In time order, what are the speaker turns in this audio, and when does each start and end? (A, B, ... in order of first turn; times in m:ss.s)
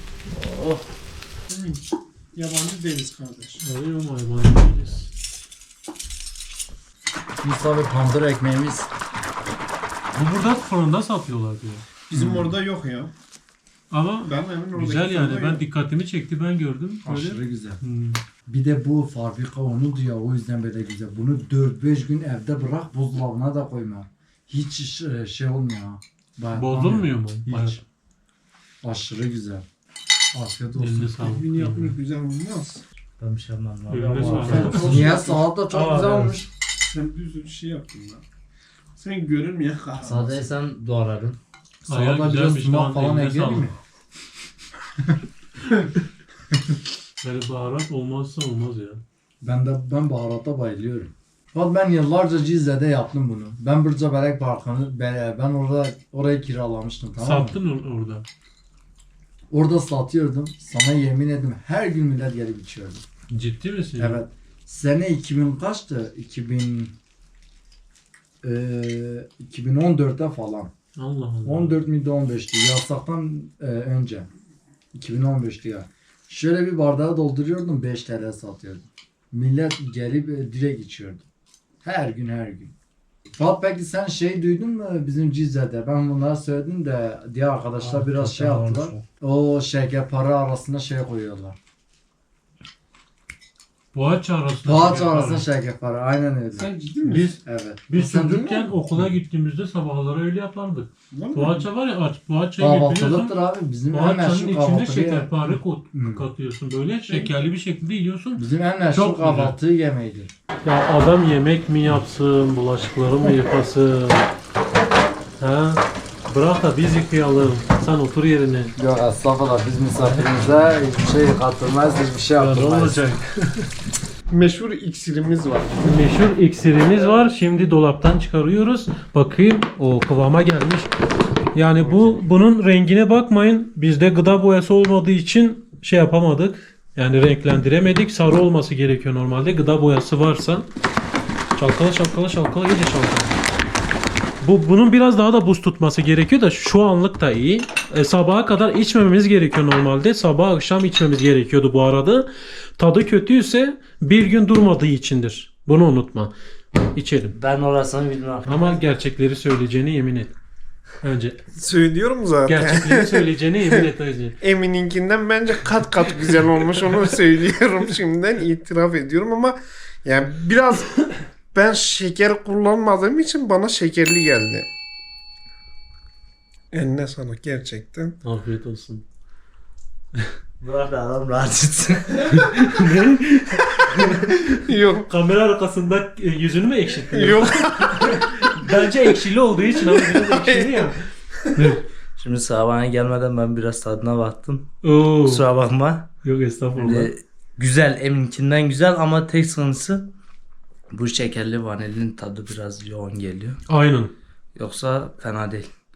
0:00.4-0:00.8 A
0:01.5-0:01.8 B
0:02.3-0:03.6 B
0:03.6-0:05.1 A
0:07.4-0:08.9 C
0:10.1-0:11.8 A
0:12.1-0:13.1 B
0:13.9-0:18.2 A
0:14.2-0:15.6 B
0:17.0-0:17.8 C
0:18.5-0:27.8 C
0:26.5-0:27.8 A
0:28.8-0:29.6 C
0:30.3-0:31.2 C
0:30.8-0:32.0 A
0:31.2-0:32.8 B
0:33.2-0:36.4 D
0:33.9-0:35.2 A
0:34.2-0:36.5 C
0:36.0-0:36.3 A
0:36.9-0:38.2 B
0:39.0-0:40.2 B
0:40.0-0:41.4 D
0:40.0-0:40.6 C
0:41.8-0:43.7 C
0:41.9-0:43.7 A
0:47.2-0:49.0 A
0:49.4-0:57.6 C
0:57.2-0:58.2 A
0:59.5-1:03.0 C
1:03.3-1:04.2 A
1:04.0-1:06.9 C
1:08.4-1:10.7 C
1:11.0-1:11.8 A
1:11.4-1:14.3 C
1:14.9-1:21.2 C
1:21.8-1:22.7 C
1:23.3-1:31.6 C
1:27.8-1:29.0 D
1:33.9-1:35.5 A
1:34.6-1:36.7 C
1:36.6-1:37.3 B
1:37.0-1:43.4 A
1:37.4-1:39.1 C
1:41.1-1:41.6 B
1:42.6-1:46.3 C
1:43.9-1:49.6 A
1:48.4-1:50.3 C
1:50.6-1:54.2 A
1:55.4-1:58.7 A
1:58.8-2:03.0 C
2:00.0-2:00.3 A
2:02.3-2:03.2 A
2:04.3-2:05.9 B
2:05.8-2:10.9 A
2:11.5-2:20.7 A
2:11.8-2:12.2 B
2:21.6-2:23.3 A
2:24.4-2:32.3 A
2:32.8-2:36.3 A
2:36.9-2:37.4 A
2:37.3-2:38.8 D
2:38.4-2:40.3 A
2:41.0-2:41.4 A
2:41.6-2:43.3 B
2:42.4-2:44.4 A
2:44.4-2:50.9 B
2:51.5-2:54.7 B
2:56.7-2:58.2 B
2:58.2-2:59.0 A
3:00.6-3:02.9 D
3:02.4-3:04.1 A
3:04.6-3:05.1 B
3:05.0-3:10.9 A
3:07.1-3:08.2 B
3:09.9-3:10.9 B
3:11.5-3:11.8 A
3:12.2-3:14.7 D
3:14.8-3:15.4 A
3:15.2-3:16.1 D
3:16.2-3:17.1 A
3:16.8-3:20.1 D
3:20.9-3:23.6 D
3:23.7-3:24.1 A
3:24.6-3:25.7 D